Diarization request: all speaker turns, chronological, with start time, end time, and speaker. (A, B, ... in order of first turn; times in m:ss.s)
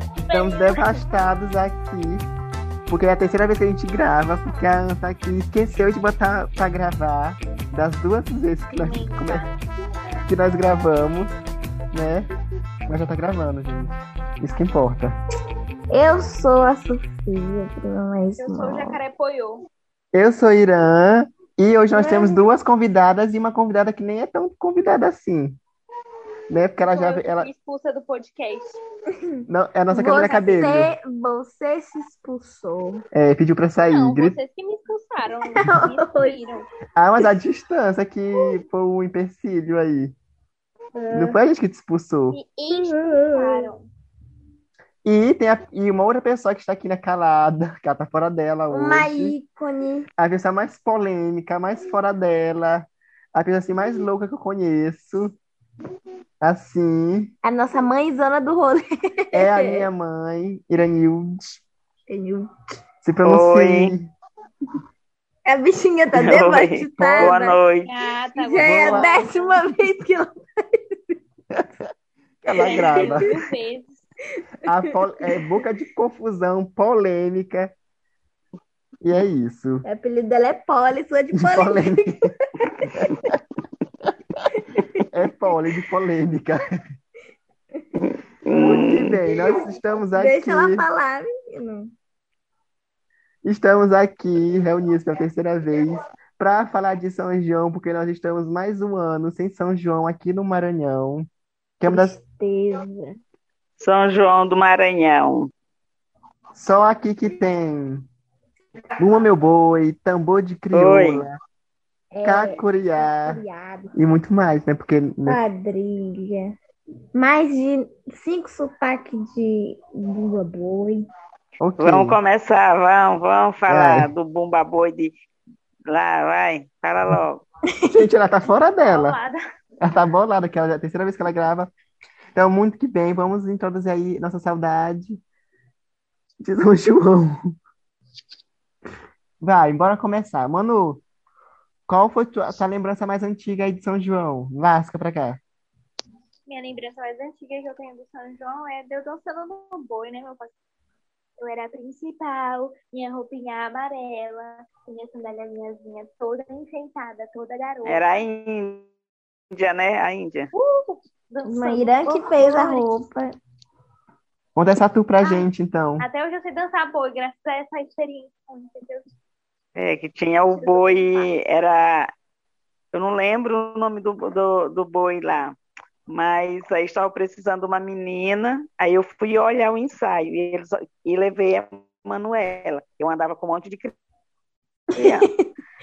0:00.3-0:01.0 A
0:00.3-0:02.3 B
0:02.9-0:09.4 B
0:08.7-0:09.5 A
0:10.3-0:11.4 B
0:11.9-0:12.3 B
0:12.9-0:15.2 B
0:15.9-0:19.0 C
0:18.4-0:19.6 A
0:20.1-0:25.6 B
0:21.9-0:22.4 C
0:26.5-0:27.5 B
0:26.8-0:28.8 A
0:29.5-0:30.9 B
0:29.9-0:33.0 C
0:33.1-0:34.4 B
0:33.9-0:36.7 A
0:35.4-0:36.4 C
0:37.0-0:40.1 B
0:40.9-0:41.4 C
0:41.1-0:42.4 B
0:42.3-0:43.8 A
0:42.7-0:43.7 C
0:45.0-0:49.3 B
0:48.7-0:50.1 C
0:50.2-0:55.4 B
0:56.4-0:57.3 B
0:57.4-0:59.9 C
0:59.3-1:01.6 B
1:02.1-1:02.5 C
1:03.0-1:04.1 B
1:03.2-1:03.9 D
1:05.5-1:07.6 C
1:06.2-1:07.9 D
1:07.0-1:07.4 B
1:07.8-1:09.6 A
1:08.3-1:11.1 C
1:08.6-1:09.1 B
1:12.4-1:13.3 B
1:12.5-1:13.2 C
1:12.6-1:14.0 A
1:14.7-1:17.7 B
1:14.7-1:15.4 C
1:19.0-1:19.8 B
1:19.8-1:23.2 C
1:21.3-1:22.2 B
1:24.6-1:25.0 C
1:25.1-1:26.8 B
1:28.0-1:29.1 D
1:28.5-1:30.8 B
1:30.1-1:31.9 C
1:33.4-1:41.3 B
1:41.8-1:42.2 B
1:41.9-1:43.2 C
1:43.8-1:45.5 D
1:46.6-1:48.1 B
1:49.0-1:51.4 B
1:50.7-1:51.2 D
1:52.1-1:53.9 C
1:52.2-1:53.4 B
1:53.9-1:55.4 B
1:55.2-1:56.5 C
1:57.2-2:01.1 C
2:01.6-2:02.2 B
2:01.8-2:05.1 D
2:03.7-2:04.1 B
2:05.9-2:07.4 D
2:07.9-2:09.2 B
2:08.8-2:09.4 A
2:09.8-2:11.7 B
2:12.3-2:15.2 B
2:16.4-2:17.4 B
2:19.4-2:21.0 B
2:21.9-2:25.4 B
2:26.5-2:30.5 A
2:31.4-2:38.0 A
2:37.8-2:38.9 D
2:39.5-2:40.5 D
2:40.5-2:42.9 A
2:41.4-2:43.4 C
2:44.5-2:46.1 B
2:45.2-2:45.5 A
2:46.0-2:49.1 A
2:49.8-2:52.1 D
2:50.5-2:51.3 A
2:52.9-2:55.6 D
2:56.1-3:03.9 D
3:05.0-3:05.3 D
3:05.0-3:05.5 C